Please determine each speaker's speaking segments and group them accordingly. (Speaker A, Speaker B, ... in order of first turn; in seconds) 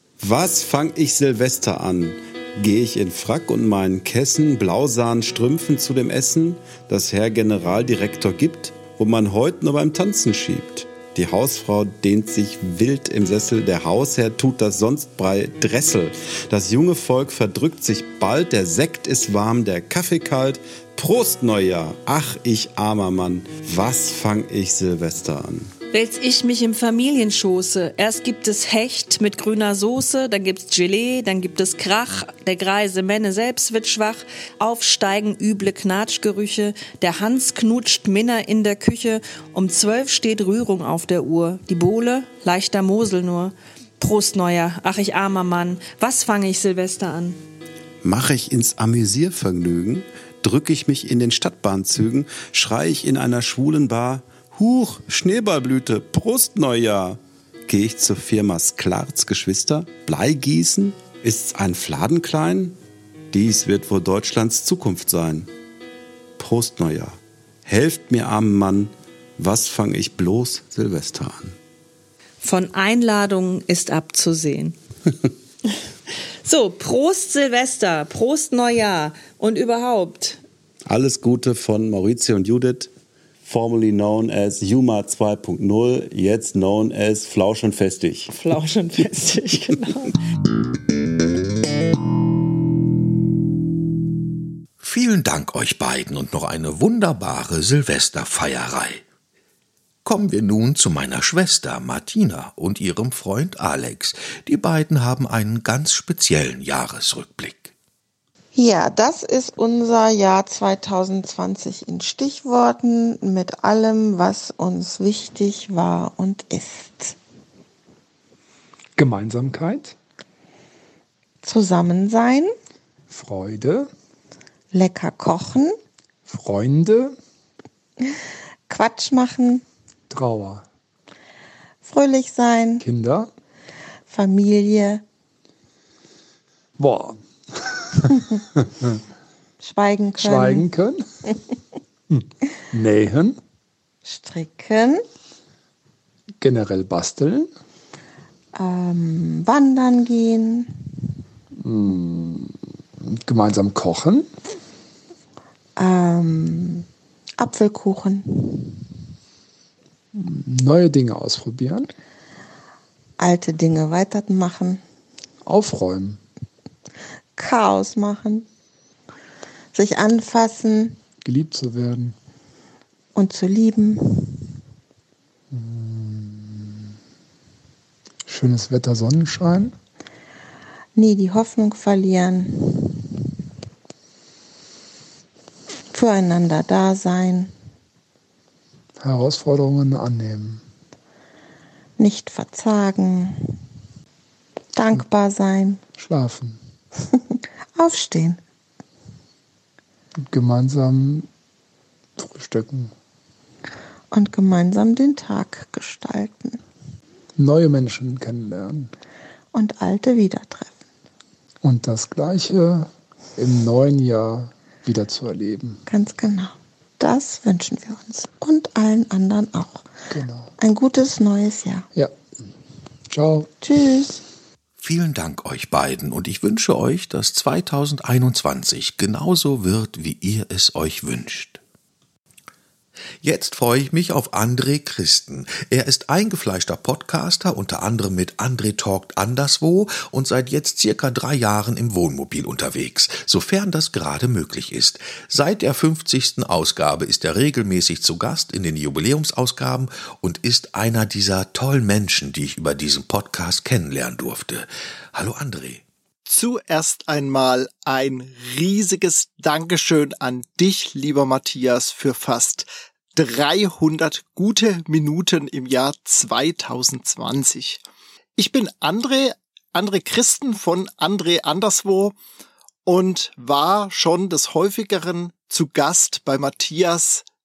Speaker A: 0.2-25.7, 48.0-62.8, 63.3-65.5, 66.4-71.5, 80.8-82.9, 83.4-88.3
Speaker B: 25.9-47.4, 72.4-74.8, 76.4-80.4, 88.3-90.1
Speaker C: 94.8-99.0, 100.0-107.7, 224.8-231.6, 233.2-255.8
Speaker D: 108.5-117.2, 121.4-122.5, 124.7-125.8, 128.7-129.6, 131.8-132.8, 134.1-135.0, 139.6-140.7, 144.0-145.0, 148.5-150.8, 155.8-156.9, 157.4-158.8, 163.2-164.8, 167.4-168.4, 169.7-171.0, 173.1-174.5, 180.9-183.1, 185.9-187.5, 192.0-193.6, 194.7-195.8, 197.8-198.4, 204.1-206.6, 209.5-210.8, 215.9-219.8, 220.6-221.9, 223.6-224.2
Speaker E: 119.0-119.9, 123.1-123.9, 126.3-127.2, 130.1-130.7, 132.8-133.3, 136.8-137.2, 140.2-141.0, 142.1-143.4, 146.4-147.5, 151.6-152.6, 153.1-154.3, 160.1-161.9, 165.4-166.2, 171.2-172.1, 175.5-176.9, 178.2-179.7, 189.0-190.6, 196.0-196.6, 200.3-201.3, 202.2-202.9, 207.3-208.9, 211.6-215.8, 220.1-220.5, 223.1-223.5
Speaker F: 256.2-267.8, 268.4-272.1, 272.9-277.2